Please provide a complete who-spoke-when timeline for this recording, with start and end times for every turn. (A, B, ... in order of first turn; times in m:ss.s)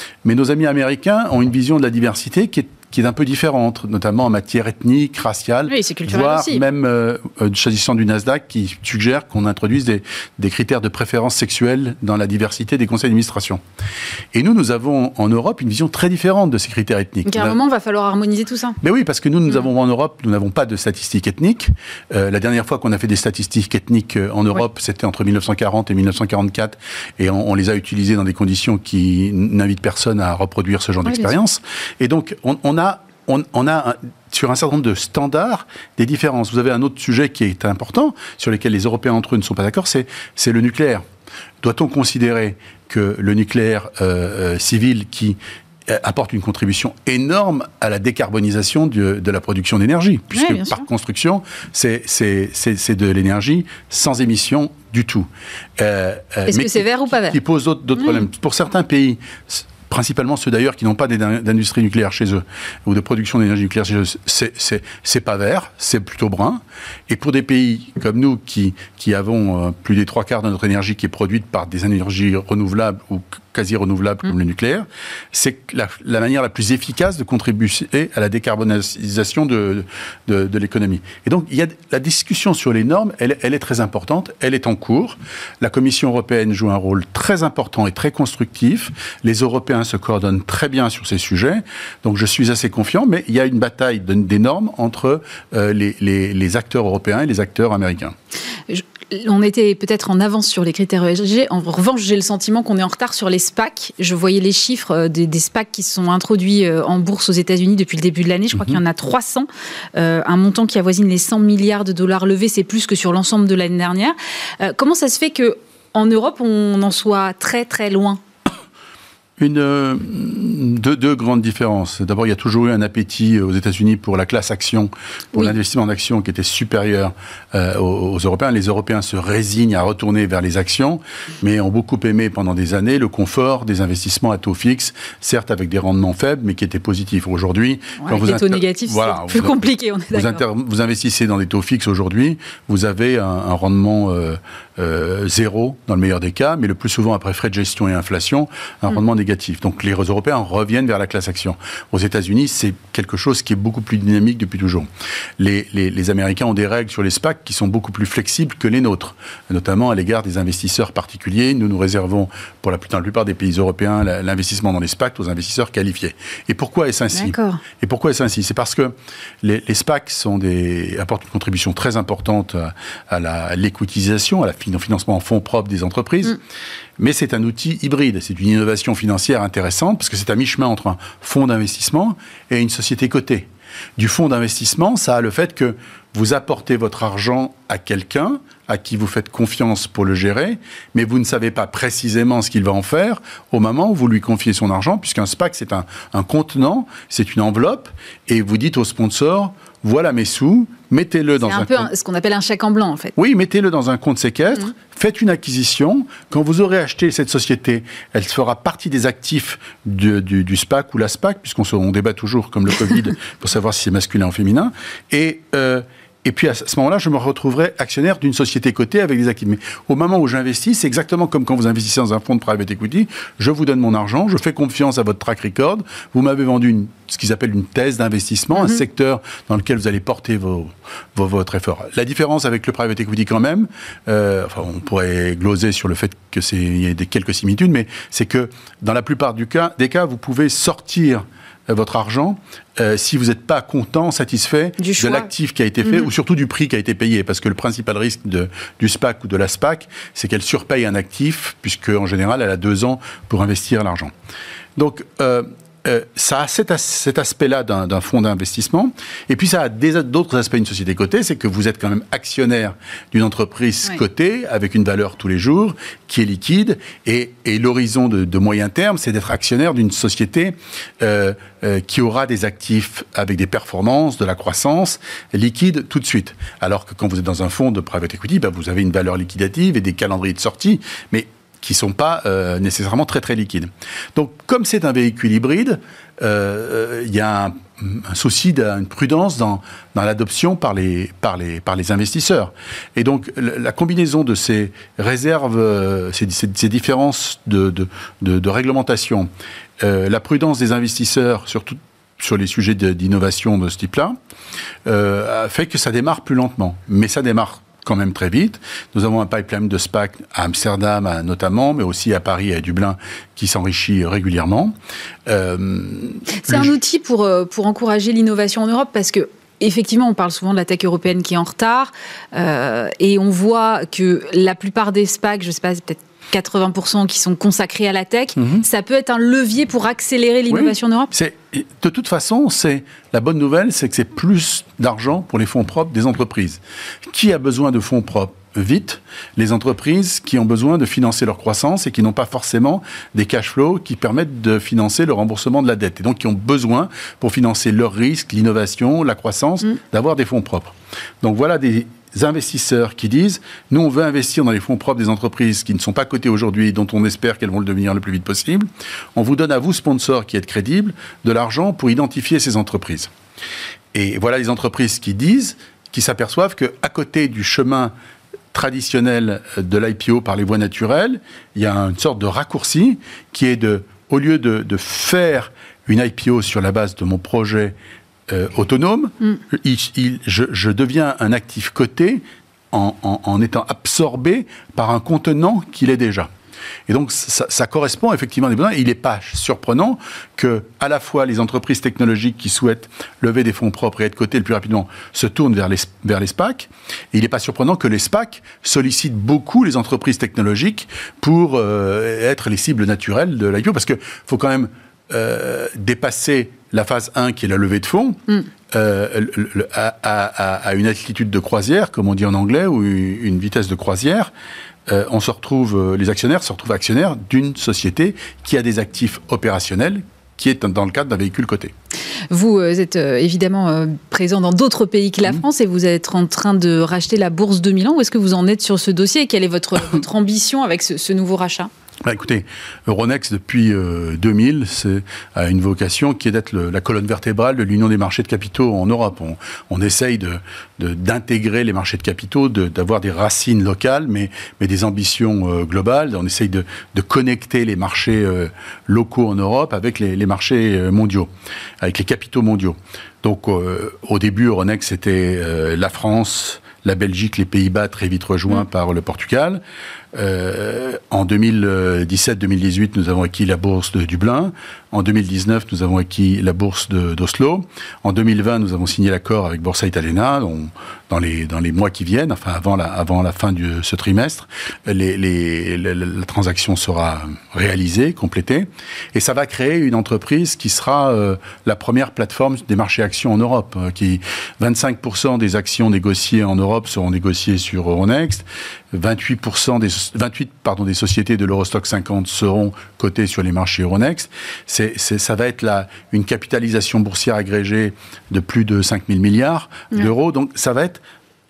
0:00.2-0:13.6 A
0:05.7-0:06.6 B
0:14.3-0:17.6 A
0:17.2-0:18.8 B
0:18.8-0:41.0 A
0:41.6-1:38.1 A
0:50.3-0:50.8 B
0:56.5-0:57.4 B
1:38.7-1:58.2 B
1:48.6-1:48.8 A
1:59.4-2:34.9 A
2:18.0-2:20.4 B
2:35.4-2:56.4 A
2:47.1-2:47.6 B
2:57.0-3:21.9 A
3:21.4-3:23.1 B
3:23.2-4:14.1 A
4:04.8-4:05.3 B
4:14.8-4:59.3 A
4:59.8-5:04.2 A
5:04.8-5:14.7 A
5:15.3-5:16.7 A
5:16.4-5:31.1 B
5:28.4-5:28.6 A
5:30.5-6:03.1 A
6:03.9-6:07.9 A
6:08.5-6:17.8 A
6:18.3-6:26.3 A
6:26.9-6:54.3 A
6:54.9-7:01.7 A
7:02.3-7:11.7 B
7:12.0-7:31.3 A
7:31.8-7:39.6 A
7:40.1-8:21.0 A